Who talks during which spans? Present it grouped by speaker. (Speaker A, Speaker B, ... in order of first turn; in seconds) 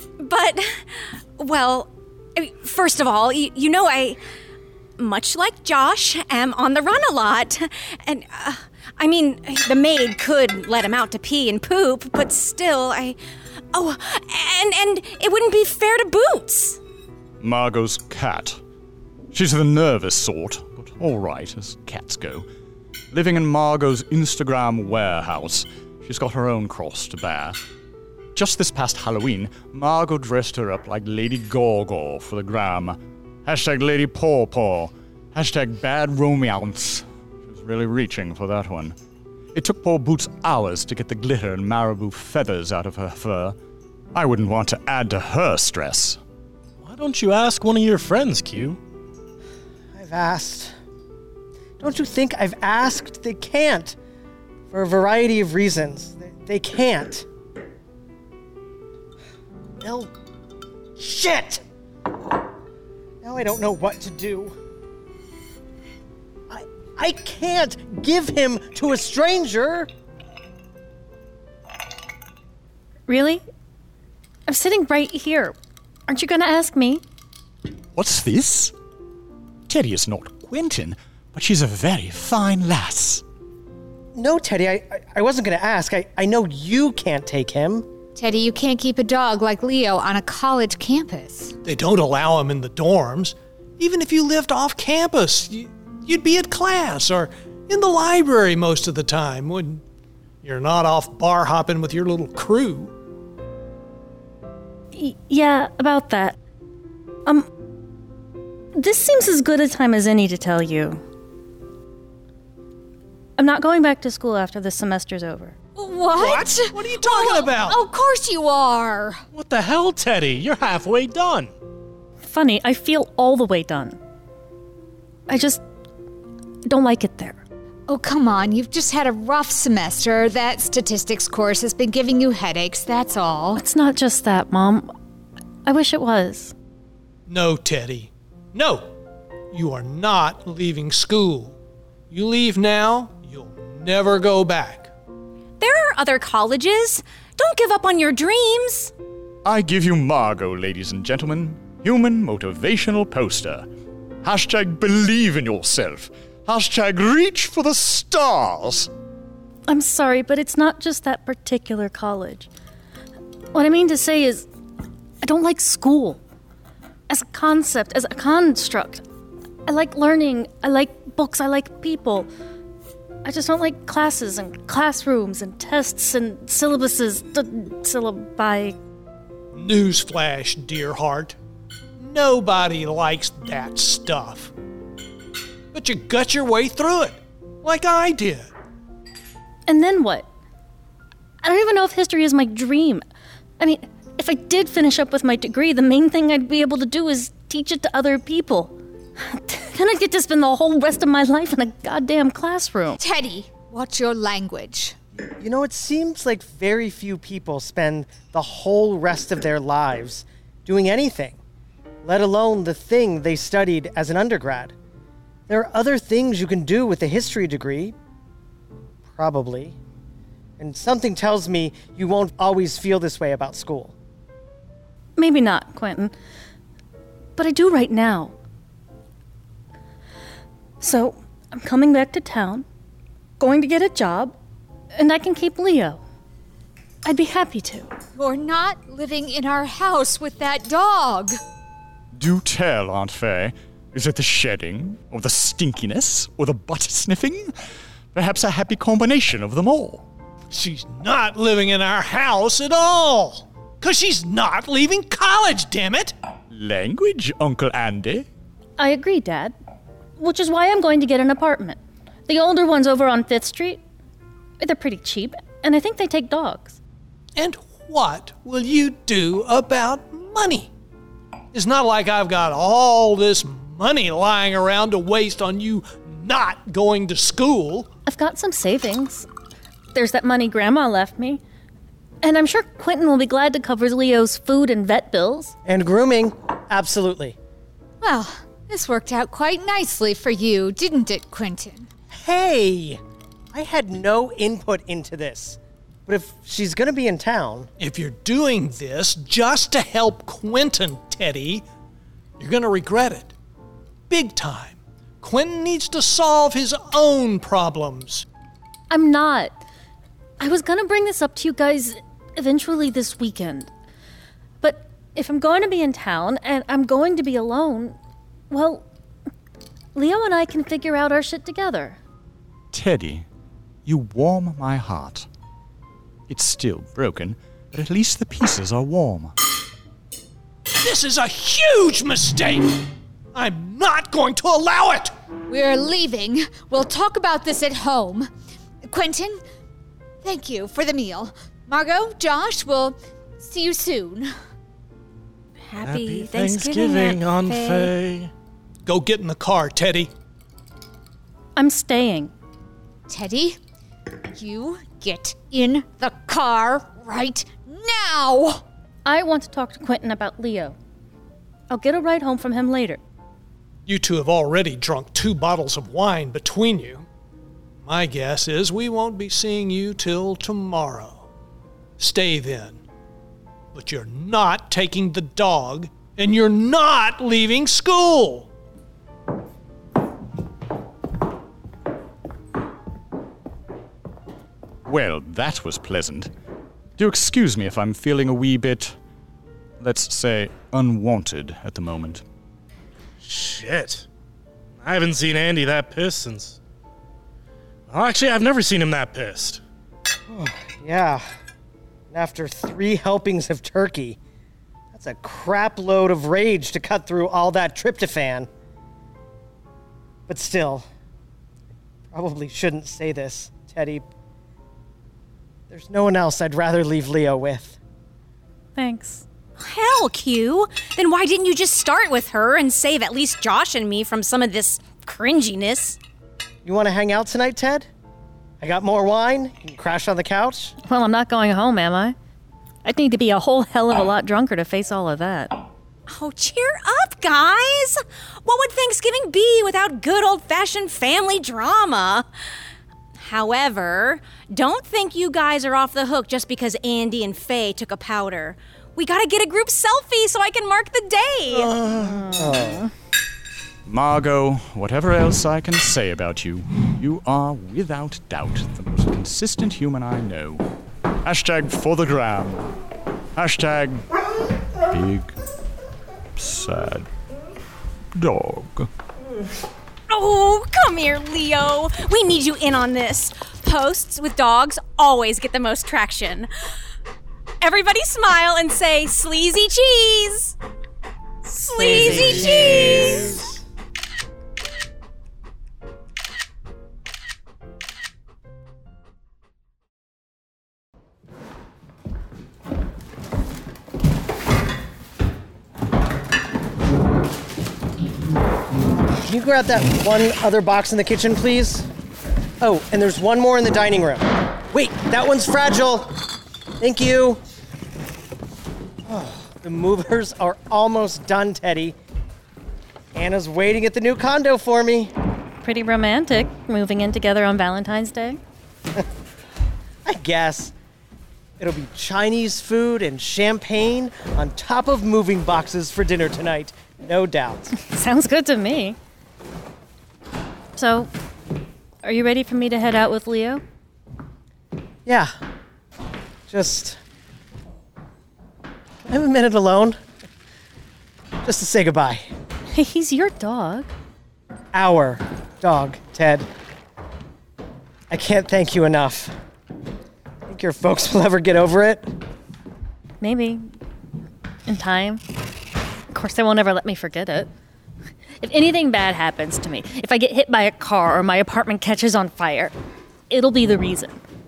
Speaker A: 0.2-4.2, 5.0-13.2, 13.7-16.8, 145.6-148.9, 345.6-347.9, 419.6-426.0, 436.1-442.3, 443.2-451.7, 470.1-476.5, 477.6-480.6, 481.4-483.4
Speaker B: 17.4-18.6, 19.3-22.4, 23.1-27.6, 28.3-38.9, 39.5-43.5, 44.1-46.2, 77.9-78.7, 79.7-83.2, 149.4-153.7, 154.2-158.9, 242.1-247.5, 248.1-250.0, 256.5-258.3, 322.7-323.2, 323.9-325.3, 326.3-329.3, 384.8-386.3, 387.0-388.9, 389.8-392.2, 453.9-460.6, 461.2-462.7, 463.3-464.1, 464.9-465.3, 466.4-467.1, 468.1-468.9
Speaker C: 46.8-48.8, 119.3-121.5, 345.8-348.3, 393.2-394.0, 394.8-396.6, 397.9-399.6
Speaker D: 49.9-50.7, 51.8-54.0, 54.7-57.3, 59.8-60.1, 61.0-61.6, 63.2-64.5, 66.5-69.9, 84.1-87.9, 205.4-211.4, 212.0-214.7, 215.5-217.9, 219.1-219.8, 220.6-223.9, 285.6-287.4, 292.1-293.0, 293.5-297.7, 400.3-401.2, 402.1-404.2, 404.9-408.5, 410.3-410.9, 412.1-414.1, 415.7-417.8, 426.6-427.9, 428.6-430.7, 451.5-452.9, 499.1-501.9, 502.6-506.1, 506.8-507.4, 509.1-512.0, 513.1-515.1, 520.0-520.7, 521.6-527.7, 535.0-535.3, 536.5-537.0, 539.0-540.0, 541.4-542.3, 544.7-546.5, 548.1-549.4, 550.5-552.1
Speaker E: 73.1-73.4, 74.5-75.5, 76.1-77.0, 104.9-106.3, 108.8-111.0, 113.4-115.5, 122.2-124.0, 125.3-125.6, 126.7-127.4, 133.6-134.9, 135.7-136.5, 159.7-162.5, 163.5-164.4, 165.2-166.2, 167.1-169.0, 169.7-172.3, 173.2-178.8, 189.7-190.3, 191.4-193.0, 193.6-203.0, 225.2-226.1, 227.4-228.3, 230.8-232.7, 233.4-234.3, 234.9-236.0, 237.0-237.9, 258.8-259.5, 260.2-263.8, 264.6-266.8, 278.1-279.3, 279.9-281.4, 282.2-285.5, 308.9-309.5, 310.4-313.7, 314.6-318.0, 318.5-318.9, 319.9-322.0, 351.6-352.3, 359.1-360.8, 361.7-363.0, 418.8-419.2, 430.8-432.1, 432.8-435.5, 452.0-452.8, 481.7-483.3, 515.6-518.4, 527.7-529.0, 530.7-531.1, 532.0-533.6, 542.7-543.9, 553.2-553.6, 554.7-555.2, 556.1-557.5, 558.4-562.7, 563.3-564.2
Speaker F: 88.1-91.5, 115.8-119.2, 127.9-133.6, 203.0-204.9, 238.2-241.4, 288.0-291.9, 335.5-338.3, 338.8-339.4, 340.2-344.3, 353.1-353.6, 354.3-358.6
Speaker G: 91.6-99.8, 100.4-102.9, 116.1-117.8, 137.3-138.9, 139.5-141.6, 142.1-144.9, 179.5-181.3, 182.0-184.5, 185.7-188.5, 250.5-256.1, 267.4-270.7, 271.5-277.9, 297.8-301.6, 302.4-303.3, 304.1-308.3, 330.8-332.8, 333.3-335.1, 348.9-350.1, 363.9-367.1, 367.8-371.3, 372.0-372.8, 373.7-378.5